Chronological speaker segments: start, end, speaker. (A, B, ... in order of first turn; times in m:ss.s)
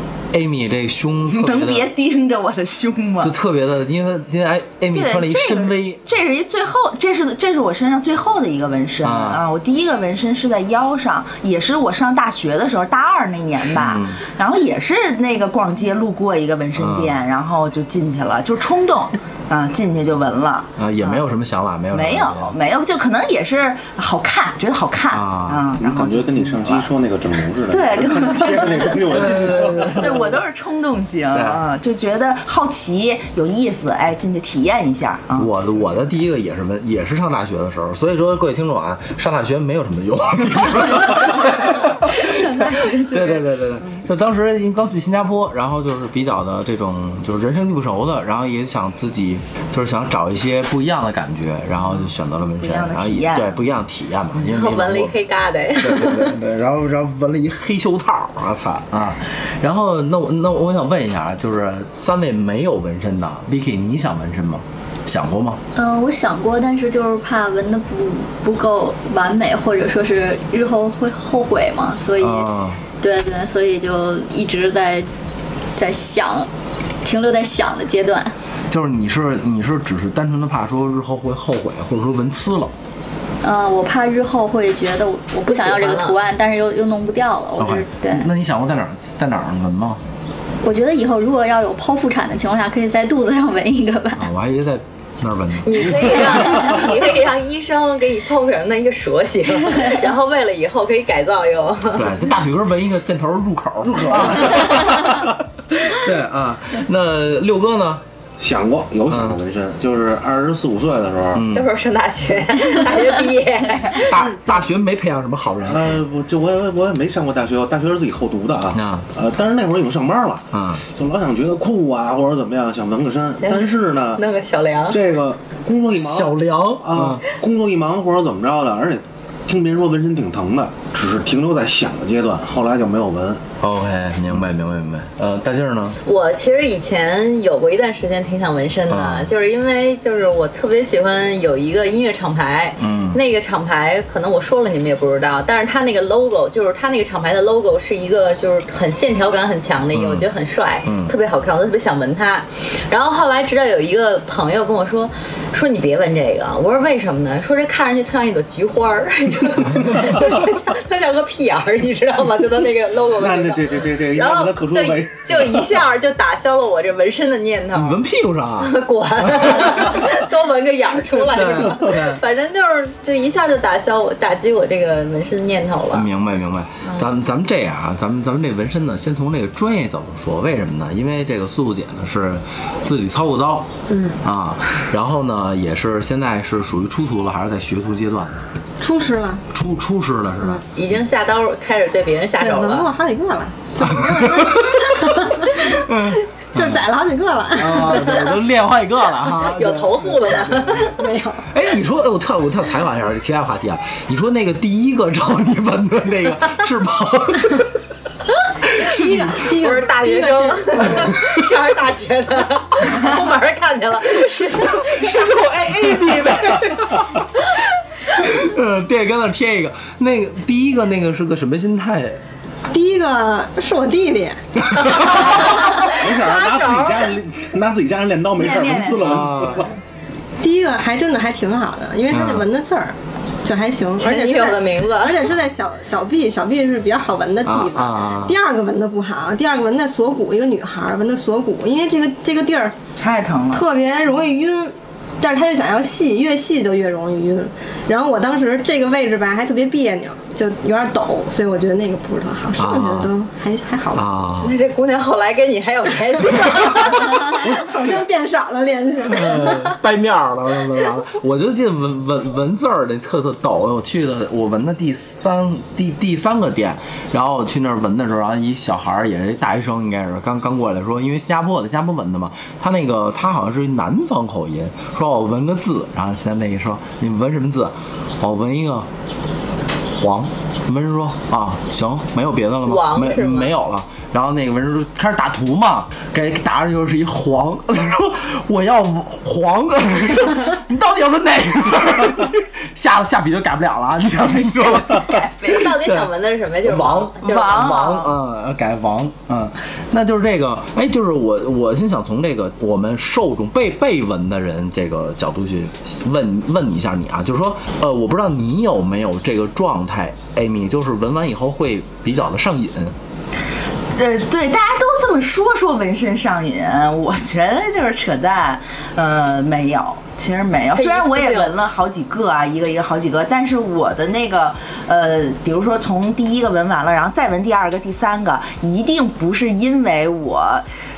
0:00.3-0:01.9 A
0:01.3-0:03.4 B
0:03.2-0:06.0 A
0:04.9-0:21.2 B
0:09.0-0:09.4 A
0:13.7-0:14.2 A
0:16.8-0:17.2 A
0:20.8-0:22.5 A
0:21.9-0:26.9 B
0:25.1-0:25.7 A
0:25.8-0:30.4 C
0:27.7-0:35.5 B
0:29.1-0:30.2 A
0:31.3-0:31.6 A
0:35.4-0:55.2 A
0:41.1-0:43.4 B
0:52.6-0:53.6 B
0:54.4-0:56.2 D
0:55.7-1:05.6 A
1:05.7-1:15.1 E
1:12.2-1:12.8 A
1:15.8-1:16.5 E
1:17.0-1:18.3 E
1:18.7-1:22.7 A
1:23.4-1:28.3 E
1:25.4-1:26.2 D
1:27.6-1:30.0 A
1:30.6-1:34.2 E
1:34.2-1:36.8 A
1:35.6-1:42.1 D
1:41.9-1:48.0 A
1:43.8-1:45.2 C
1:48.4-1:51.4 C
1:49.1-1:49.4 A
1:51.3-1:51.7 A
1:51.5-1:54.3 D
1:53.9-1:56.0 A
1:55.6-2:04.2 C
1:58.7-1:59.1 A
2:00.5-2:00.8 A
2:03.4-2:05.0 D
2:04.9-2:13.4 C
2:05.9-2:07.2 A
2:13.6-2:16.0 A
2:16.0-2:48.0 D
2:18.9-2:19.3 A
2:22.8-2:23.2 A
2:29.9-2:30.3 A
2:30.8-2:31.1 A
2:43.1-2:45.8 C
2:47.7-2:50.1 A
2:48.6-2:56.1 D
2:51.2-2:52.2 A
2:55.9-3:03.7 A
3:03.9-3:04.2 F
3:04.2-3:08.4 A
3:08.8-3:09.4 F
3:09.5-3:10.6 A
3:10.7-3:12.9 D
3:12.4-3:15.8 F
3:13.8-3:16.8 A
3:16.5-3:18.3 F
3:17.5-3:20.9 A
3:19.4-3:20.9 D
3:20.8-3:21.5 F
3:21.5-3:27.7 A
3:28.8-3:31.2 F
3:29.6-3:35.0 D
3:30.8-3:31.3 A
3:34.7-3:37.2 A
3:38.1-3:42.2 A
3:42.7-3:44.4 F
3:44.7-3:45.5 A
3:44.9-3:47.1 D
3:45.3-3:49.7 C
3:48.4-3:49.2 B
3:49.0-3:49.7 A
3:50.4-4:02.7 F
3:52.1-3:52.5 A
3:54.0-3:55.2 D
3:57.4-3:58.4 A
4:03.0-4:03.7 B
4:03.5-4:14.1 F
4:12.6-4:13.1 A
4:13.9-4:14.6 A
4:14.4-4:17.3 D
4:17.3-4:19.7 F
4:17.4-4:17.8 C
4:19.1-4:38.9 A
4:39.8-4:56.1 A
4:42.6-4:43.5 D
4:54.4-4:55.7 B
4:55.5-4:57.8 D
4:56.6-5:13.0 A
4:57.2-4:58.1 B
5:13.9-5:30.6 B
5:20.7-5:21.5 D